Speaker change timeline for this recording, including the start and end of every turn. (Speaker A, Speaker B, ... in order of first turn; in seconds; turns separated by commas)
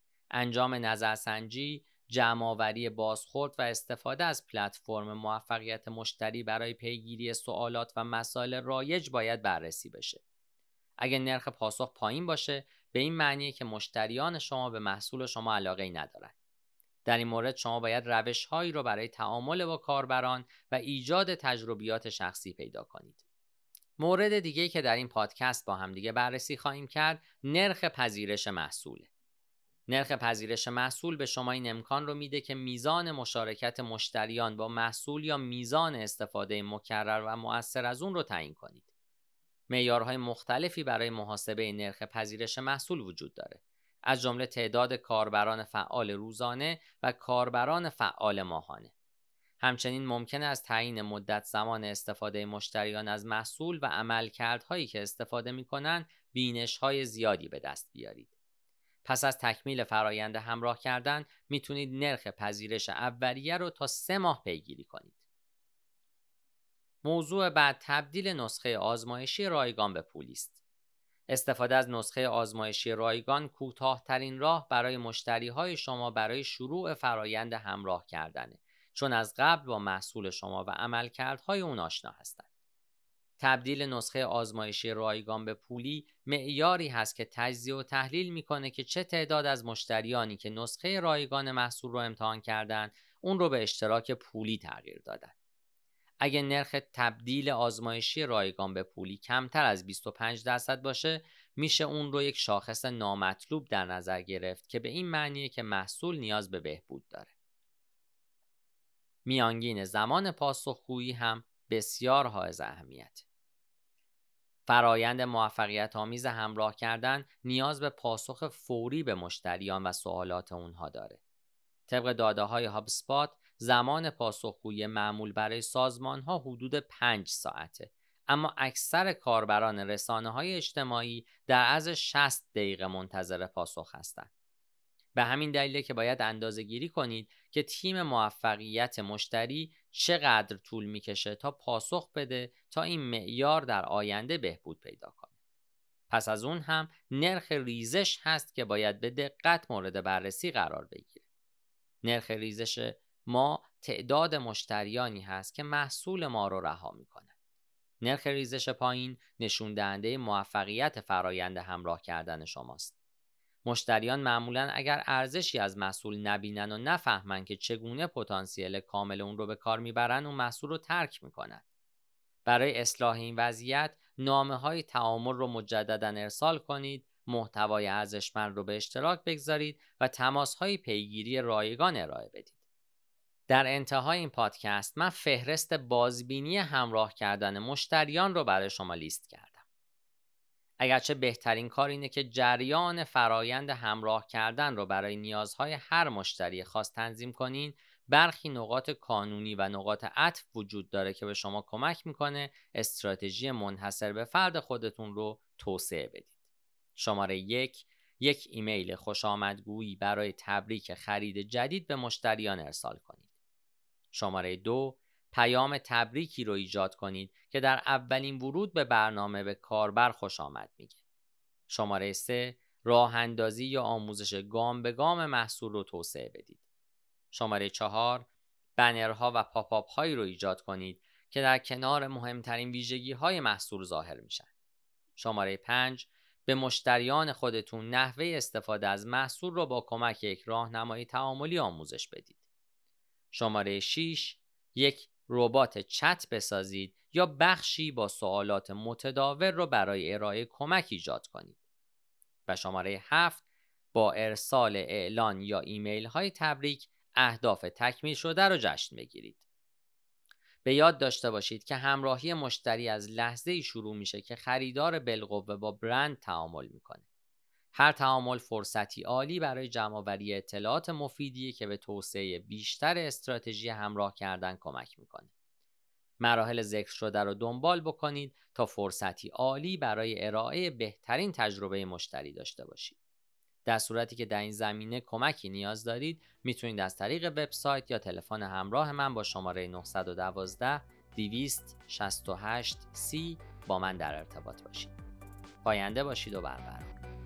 Speaker A: 0.3-10.2, Speaker A: 11.0-16.3, Speaker A: 17.1-23.2, Speaker A: 24.0-29.1, Speaker A: 29.9-38.9, Speaker A: 39.7-48.9, Speaker A: 49.6-58.3, Speaker A: 59.0-65.2, Speaker A: 67.0-70.6, Speaker A: 71.3-82.5, Speaker A: 83.4-95.3, Speaker A: 96.2-107.3, Speaker A: 109.2-113.2, Speaker A: 114.7-121.2, Speaker A: 121.9-134.3, Speaker A: 135.1-145.3, Speaker A: 146.1-151.2, Speaker A: 152.0-157.3, Speaker A: 158.0-162.9, Speaker A: 163.6-171.6, Speaker A: 172.4-182.6, Speaker A: 183.5-189.6, Speaker A: 190.8-206.3, Speaker A: 206.9-213.2, Speaker A: 214.1-221.0, Speaker A: 221.7-226.6, Speaker A: 227.3-234.5, Speaker A: 235.2-242.4, Speaker A: 243.3-251.6, Speaker A: 252.5-253.4, Speaker A: 253.9-259.4, Speaker A: 260.6-267.0, Speaker A: 267.7-275.3, Speaker A: 276.2-282.9, Speaker A: 283.6-294.9, Speaker A: 295.6-297.0